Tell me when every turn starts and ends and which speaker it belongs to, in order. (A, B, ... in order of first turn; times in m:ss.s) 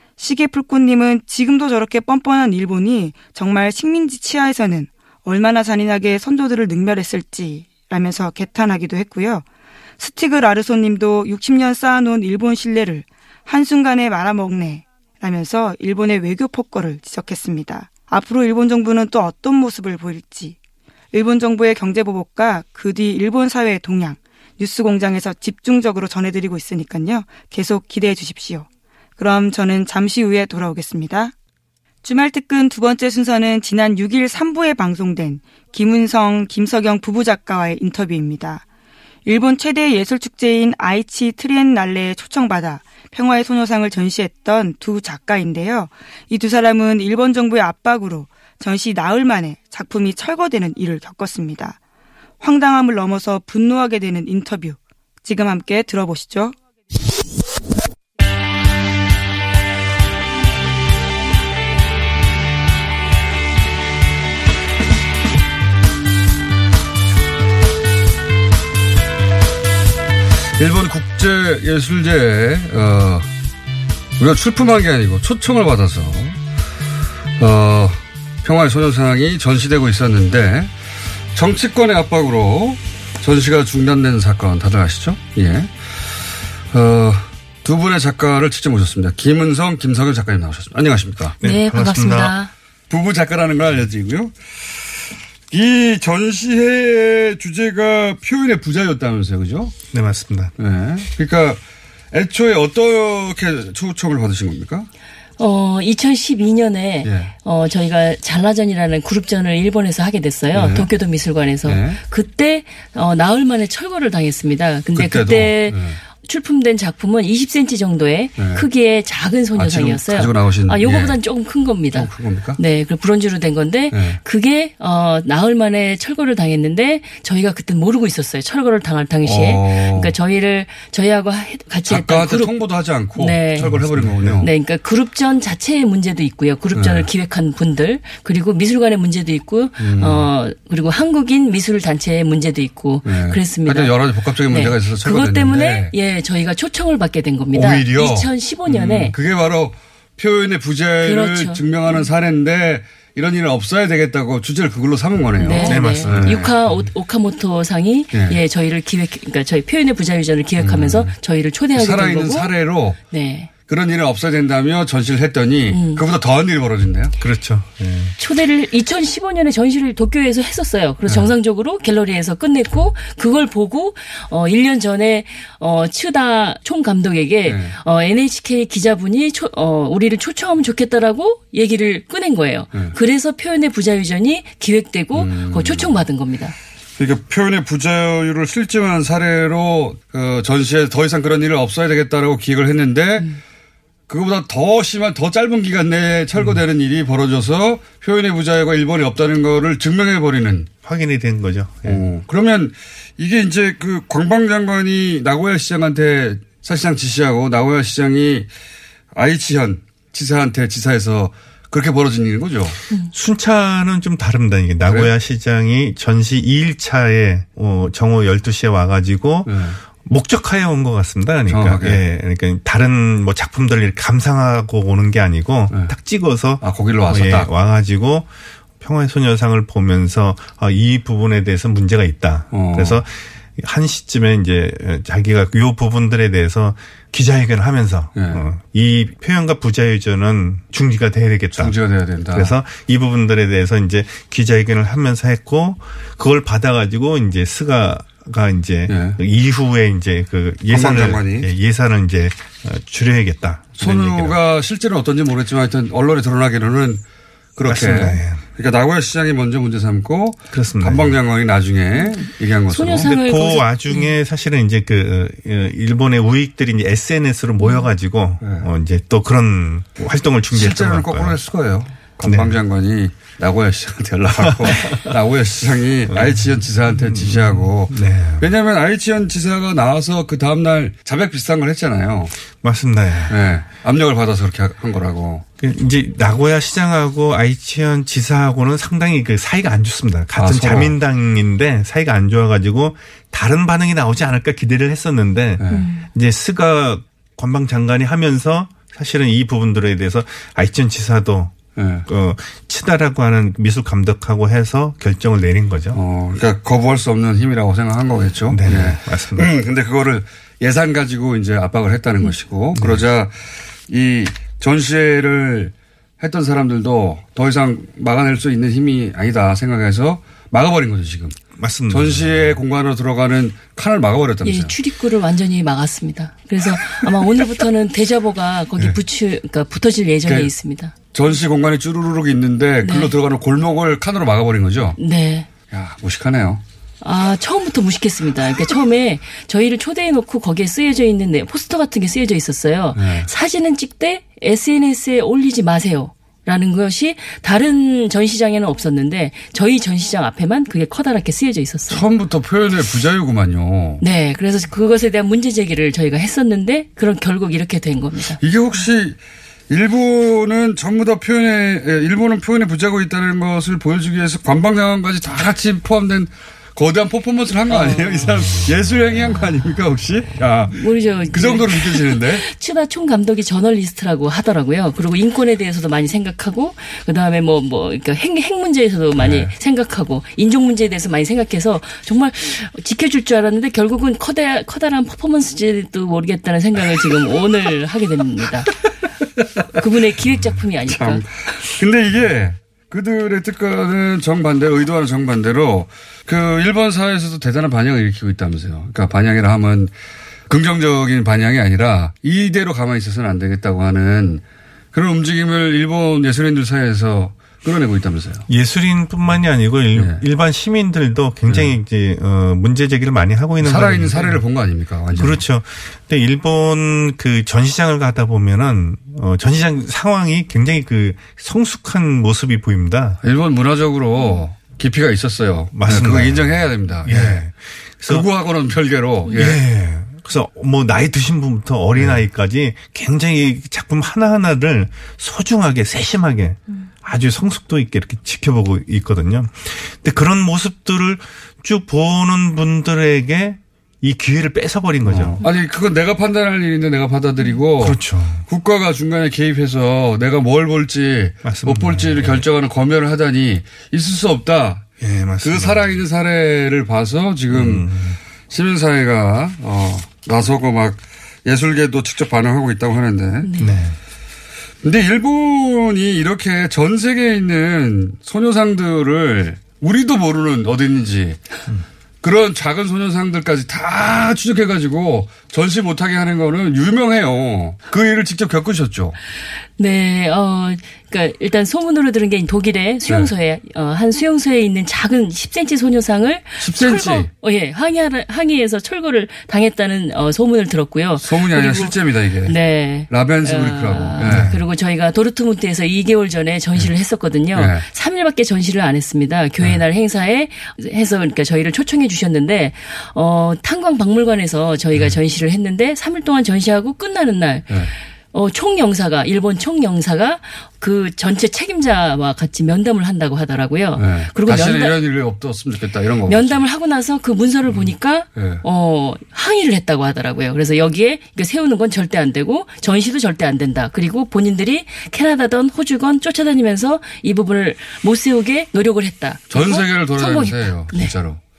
0:00.2-0:09.4 A
0:10.0-0:20.6 A
0:21.1-0:28.7 A
0:29.2-0:31.3 A
0:32.0-0:38.6 A
0:39.3-0:51.8 A
0:52.4-0:56.6 A
1:10.6-1:13.3 B
1:14.2-1:16.4 B
1:17.4-1:20.7 B
1:21.3-1:25.8 B
1:26.7-1:31.4 B
1:31.4-1:32.4 C
1:31.4-1:32.5 D
1:32.9-1:34.6 B
1:35.5-1:39.7 B
1:39.9-1:40.5 C
1:40.6-1:41.6 B
1:42.1-1:44.9 B
1:45.4-2:12.6 D
1:47.0-1:47.3 B
1:50.5-1:50.9 B
1:51.6-1:52.0 B
1:54.9-1:56.0 B
1:58.4-1:58.7 B
1:59.5-2:01.2 B
2:01.9-2:02.6 B
2:03.9-2:04.2 B
2:09.2-2:10.2 B
2:11.9-2:14.5 B
2:13.2-2:13.8 D
2:13.9-2:14.4 C
2:14.4-2:24.0 D
2:16.7-2:17.1 B
2:19.8-2:20.3 B
2:23.0-2:25.9 B
2:24.5-2:29.2 D
2:27.5-2:36.9 B
2:31.0-2:32.1 D
2:35.4-2:42.5 D
2:35.6-2:36.3 C
2:38.1-2:38.4 B
2:40.6-2:41.2 B
2:41.7-2:43.0 B
2:43.1-2:43.5 D
2:43.7-2:47.2 B
2:45.7-2:46.0 D
2:47.2-2:48.1 C
2:48.2-3:06.6 D
2:51.1-2:51.3 B
2:57.4-2:57.8 B
3:05.1-3:06.0 B
3:07.0-3:13.3 B
3:14.1-3:20.7 B
3:20.8-3:22.0 C
3:21.8-3:28.5 B
3:29.1-3:32.8 B
3:33.1-4:01.8 C
3:34.9-3:35.1 B
3:39.5-3:39.8 B
3:41.5-3:42.0 B
3:46.6-3:47.5 B
3:52.5-3:53.0 B
3:58.1-3:58.4 B
4:01.5-4:02.6 B
4:02.3-4:14.4 C
4:08.9-4:09.2 B
4:10.7-4:11.5 B
4:13.8-4:17.0 B
4:17.6-4:23.1 B
4:17.7-4:18.4 C
4:20.5-4:21.2 C
4:22.0-4:24.2 D
4:23.0-4:31.4 C
4:27.6-4:27.9 D
4:28.4-4:28.7 B
4:30.5-4:42.3 B
4:32.2-4:32.6 C
4:34.4-4:35.0 C
4:36.1-4:38.5 C
4:42.5-4:43.4 C
4:43.3-4:45.4 B
4:45.6-5:06.0 C
4:50.4-4:50.9 B
4:55.6-4:55.9 B
4:55.7-4:56.1 D
5:01.8-5:02.1 B
5:05.9-5:21.4 B
5:08.5-5:09.5 C
5:12.8-5:13.0 C
5:21.6-5:22.6 C
5:21.9-5:24.8 B
5:24.4-5:31.0 D
5:26.8-5:27.6 B
5:30.3-5:30.5 B
5:31.1-5:35.0 B
5:32.8-5:33.1 D
5:35.0-5:35.5 D
5:35.7-5:36.6 B
5:37.0-5:52.0 D
5:42.9-5:43.3 B
5:51.9-5:54.0 B
5:54.0-5:58.4 D
5:58.4-5:59.2 B
5:59.7-6:12.5 B
6:07.7-6:08.6 D
6:10.7-6:28.7 D
6:19.2-6:19.5 B
6:29.8-6:31.2 D
6:30.8-6:39.9 B
6:40.5-6:48.5 B
6:48.5-6:54.4 C
6:49.9-6:50.2 B
6:51.5-6:51.8 B
6:53.6-6:55.4 B
6:55.1-7:03.2 C
7:03.2-7:07.5 B
7:05.7-7:08.3 C
7:08.0-7:09.6 B
7:09.3-7:25.4 C
7:12.0-7:12.2 B
7:25.0-7:34.8 B
7:27.8-7:28.4 C
7:31.4-7:32.5 C
7:35.0-7:36.0 C
7:35.4-7:37.9 B
7:37.5-7:38.2 C
7:38.5-7:43.5 B
7:43.4-7:43.8 D
7:43.6-7:44.0 C
7:44.8-7:51.4 B
7:52.2-7:59.2 B
7:59.8-8:35.0 D
8:03.1-8:03.3 B
8:06.6-8:07.3 B
8:11.2-8:12.6 B
8:13.1-8:14.5 B
8:14.3-8:14.6 C
8:17.5-8:17.8 B
8:24.9-8:25.2 B
8:34.0-8:36.6 B
8:36.3-8:51.2 D
8:37.7-8:38.6 B
8:49.5-8:51.4 B